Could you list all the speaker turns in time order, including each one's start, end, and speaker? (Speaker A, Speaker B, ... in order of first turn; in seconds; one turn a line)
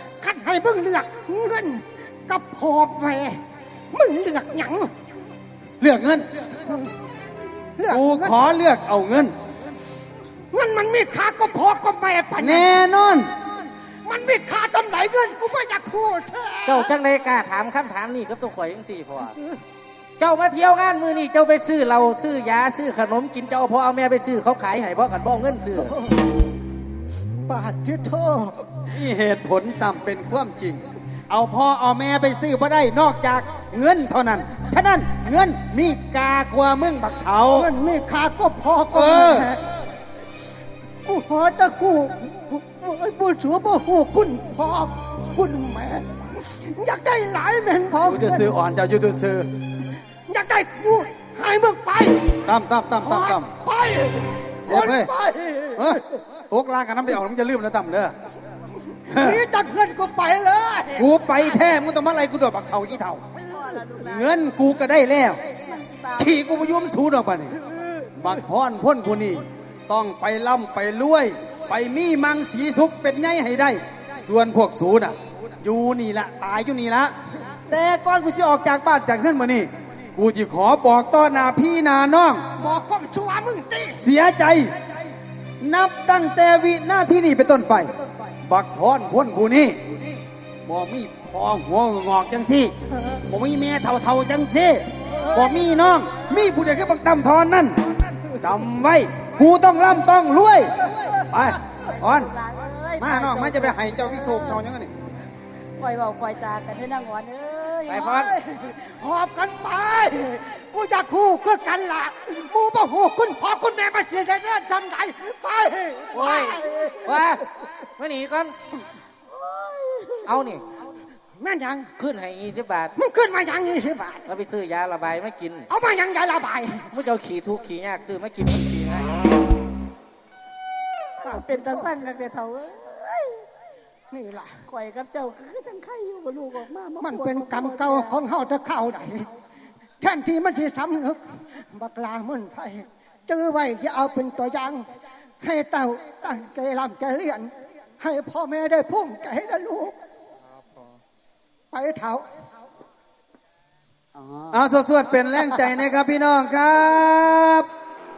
Speaker A: 0.2-4.9
Speaker B: 5.8-6.3
Speaker A: 6.6-6.9
Speaker A: 7.8-8.4
Speaker B: 7.9-9.3
Speaker A: 10.5-12.8
Speaker B: 12.4-13.3
Speaker A: 14.0-16.9
Speaker C: 16.6-19.4
Speaker C: 20.2-26.0
Speaker A: 25.9-26.1
Speaker A: 27.5-28.8
Speaker B: 28.9-37.7
Speaker A: 37.6-39.6
Speaker B: 38.9-39.6
Speaker A: 41.0-48.5
Speaker B: 48.0-49.5
Speaker A: 50.3-52.4
Speaker B: 52.4-53.5
Speaker A: 53.0-56.2
Speaker B: 54.6-55.1
Speaker B: 55.8-58.1
Speaker A: 58.9-61.6
Speaker B: 59.1-59.4
Speaker B: 61.0-63.2
Speaker D: 63.4-64.3
Speaker B: 64.0-65.4
Speaker D: 65.5-66.4
Speaker B: 66.2-67.6
Speaker B: 68.2-77.1
Speaker B: 77.7-82.5
Speaker A: 82.6-84.0
Speaker B: 84.0-84.7
Speaker B: 85.6-87.9
Speaker B: 88.5-89.8
Speaker B: 90.6-102.3
Speaker D: 101.8-104.6
Speaker B: 103.0-104.9
Speaker D: 105.8-108.1
Speaker C: 107.9-108.3
Speaker A: 107.9-117.4
Speaker C: 116.1-118.5
Speaker A: 119.6-120.2
Speaker C: 120.2-120.7
Speaker A: 121.4-121.9
Speaker C: 122.0-123.0
Speaker A: 123.0-124.3
Speaker C: 124.2-125.7
Speaker A: 125.7-127.0
Speaker C: 126.9-129.1
Speaker D: 131.2-133.5
Speaker A: 131.2-131.8
Speaker A: 134.1-134.6
Speaker D: 134.7-138.2
Speaker A: 137.0-139.3
Speaker A: 140.0-144.9
Speaker A: 145.4-150.0
Speaker A: 151.7-152.3
Speaker D: 154.1-154.6
Speaker B: 154.5-157.7
Speaker D: 155.3-155.8